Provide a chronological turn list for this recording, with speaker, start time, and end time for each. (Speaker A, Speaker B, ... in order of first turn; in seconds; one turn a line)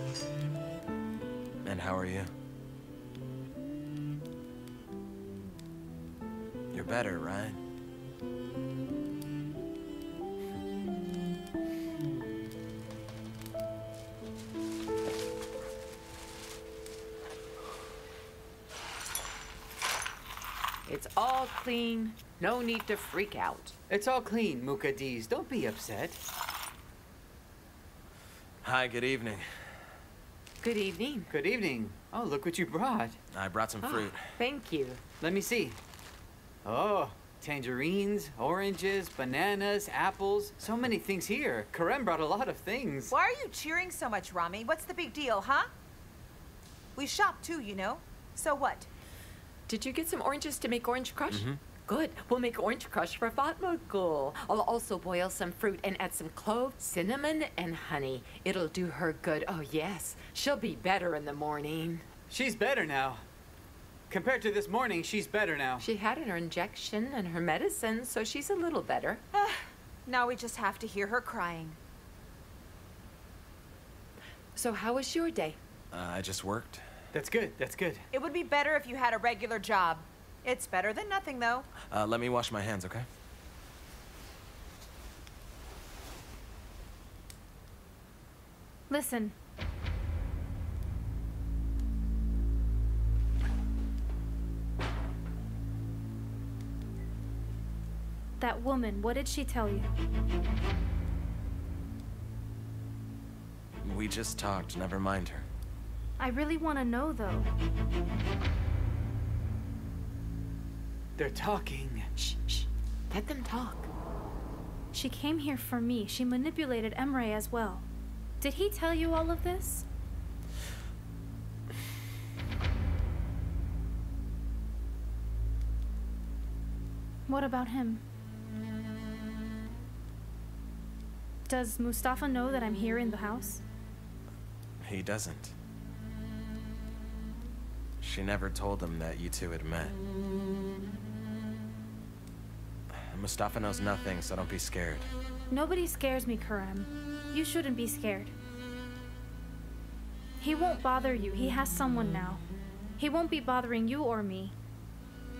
Speaker A: 1.6-2.3
Speaker A: 6.7-7.6
Speaker B: 20.9-23.7
Speaker C: 23.9-26.2
Speaker A: 28.6-29.5
Speaker B: 30.6-31.3
Speaker C: 31.3-33.2
Speaker A: 33.3-34.3
Speaker B: 33.8-35.0
Speaker C: 35.2-35.8
Speaker C: 36.6-43.1
Speaker D: 43.2-45.6
Speaker D: 47.0-48.8
Speaker B: 49.7-62.1
Speaker A: 51.3-51.6
Speaker C: 62.3-63.2
Speaker C: 64.1-65.9
Speaker B: 65.8-69.2
Speaker D: 70.1-71.8
Speaker B: 74.5-75.6
Speaker A: 75.9-76.8
Speaker C: 77.1-78.0
Speaker D: 78.1-81.6
Speaker A: 81.8-83.1
Speaker E: 88.9-89.3
Speaker E: 98.4-99.9
Speaker A: 103.8-105.5
Speaker E: 106.2-107.5
Speaker C: 111.2-112.1
Speaker B: 112.2-113.9
Speaker E: 114.9-117.8
Speaker E: 118.4-119.8
Speaker E: 127.3-128.0
Speaker E: 131.5-133.6
Speaker A: 134.8-135.5
Speaker A: 138.0-140.0
Speaker A: 142.9-145.1
Speaker E: 145.5-148.3
Speaker E: 150.4-152.4
Speaker E: 153.0-154.5